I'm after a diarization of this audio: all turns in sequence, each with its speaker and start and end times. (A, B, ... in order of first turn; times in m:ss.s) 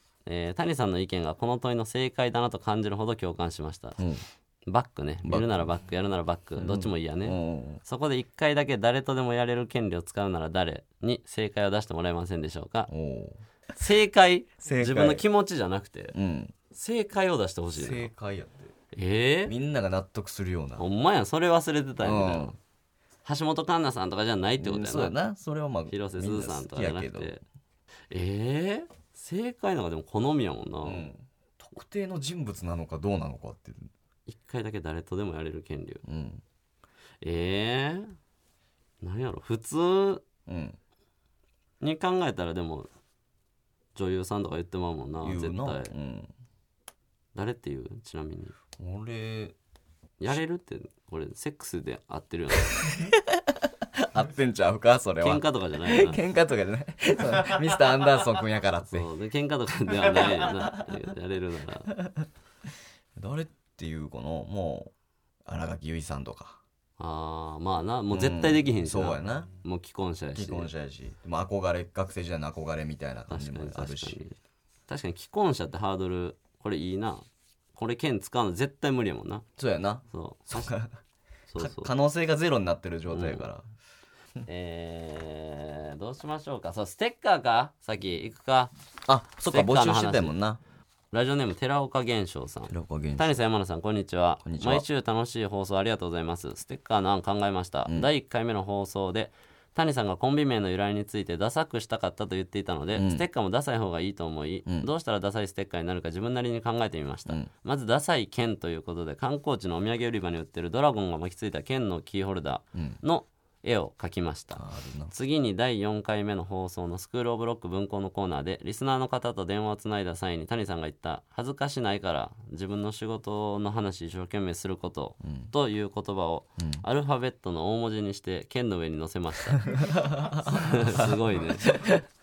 0:00.2-0:04.0 A
0:04.0-0:04.2 B
0:04.7-0:12.9 A
0:05.2-0:05.7 B
0:06.6-0:07.8 B
0:12.9-0:13.4 B
0:13.8-0:16.1 A
0:14.6-0:15.2 B
0:16.1-0:16.5 B
0:16.7-0:18.1 A
0:17.8-0:18.7 B
0:18.9-0:19.5 A
0:19.5-0:20.8 B
0:20.8-0:22.5 A
0:22.0-0:22.6 B
0:23.2-0:25.2 A
0:24.6-0:27.3 B
0:25.9-0:27.4 A
0:28.1-0:31.1 A
0:30.8-0:33.9 B
0:34.3-0:36.0 A
0:36.0-0:36.4 B
0:37.2-0:38.1 A
0:39.0-0:40.2 A
0:40.4-0:40.8 B
0:41.8-0:42.9 A
0:43.9-0:45.9 A
0:45.2-0:46.3 B
0:47.3-0:48.5 A
0:48.8-0:49.6 B
0:50.2-0:52.9 A
0:52.8-0:59.1 B
0:55.2-0:56.2 A
0:58.8-1:01.9 A
1:00.0-1:00.9 B
1:02.0-1:02.2 B
1:03.2-1:04.9 B
1:05.4-1:06.6 B
1:07.0-1:10.7 A
1:08.1-1:09.5 B
1:10.3-1:14.2 B
1:13.3-1:14.4 A
1:14.9-1:19.4 A
1:19.6-1:20.9 B
1:20.1-1:20.7 A
1:21.5-1:21.9 A
1:21.6-1:23.6 B
1:23.1-1:23.4 A
1:24.4-1:28.7 A
1:29.1-1:30.6 B
1:29.5-1:30.3 A
1:31.1-2:11.8 A
1:32.7-1:33.4 B
1:34.4-1:34.8 B
1:42.9-1:43.2 B
1:54.5-1:55.1 B
2:05.2-2:05.5 B
2:06.6-2:06.8 B
2:09.7-2:12.0 B